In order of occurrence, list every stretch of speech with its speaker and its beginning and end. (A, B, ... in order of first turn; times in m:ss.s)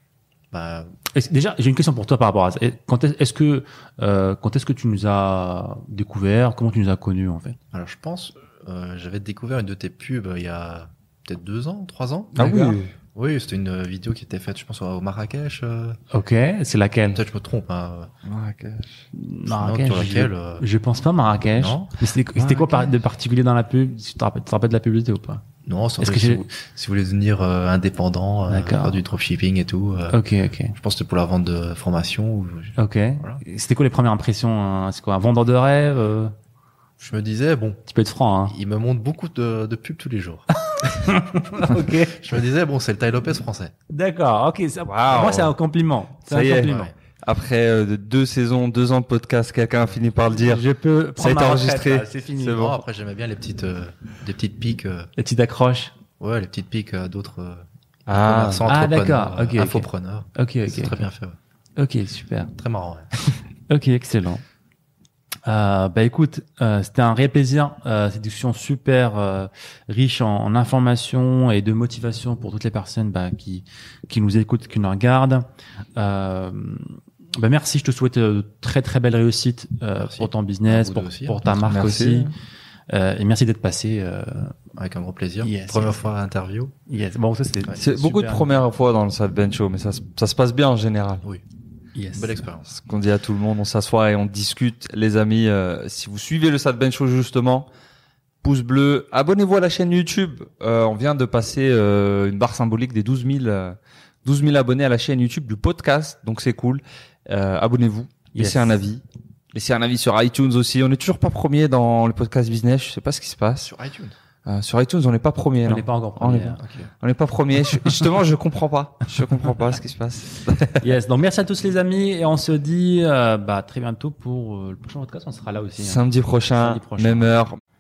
0:00.5-0:00.9 A
0:01.1-0:07.6 B
0:07.7-0:16.0 A
0:12.4-0:12.9 C
0:12.4-0:12.8 B
0:16.1-0:17.2 B
0:17.1-0:18.1 A
0:18.2-0:19.0 C
0:19.1-0:25.4 B
0:19.5-0:20.6 A
0:21.6-0:21.9 A
0:25.6-0:30.2 A
0:26.0-0:26.4 B
0:28.5-0:29.0 B
0:30.1-0:30.8 B
0:30.8-0:33.4 A
0:32.8-0:36.3 B
0:37.0-0:37.8 A
0:37.9-0:38.5 B
0:38.5-0:40.5 A
0:40.7-0:42.2 B
0:41.5-0:43.7 A
0:43.9-0:46.9 B
0:44.8-0:45.6 C
0:46.3-0:50.6 C
0:46.6-0:46.9 A
0:50.3-0:52.8 B
0:51.2-0:52.8 C
0:52.4-0:55.1 A
0:55.2-0:55.9 B
0:56.2-1:01.4 A
0:58.1-0:58.7 C
0:58.7-1:01.0 B
1:01.8-1:02.5 B
1:02.6-1:03.1 A
1:03.7-1:04.4 B
1:05.5-1:22.3 B
1:20.0-1:21.4 A
1:21.6-1:22.3 C
1:22.9-1:24.6 B
1:24.8-1:26.7 A
1:25.4-1:26.1 B
1:26.9-1:28.5 B
1:27.8-1:31.2 C
1:32.0-1:32.3 B
1:32.1-1:32.7 A
1:32.7-1:37.7 C
1:38.4-1:49.0 C
1:48.4-1:48.8 B
1:49.5-1:53.7 C
1:53.6-1:54.1 A
1:54.5-2:00.9 C
1:55.6-1:56.6 B
1:56.6-1:56.9 A
2:00.8-2:06.0 B
2:05.8-2:07.6 C
2:06.6-2:07.3 B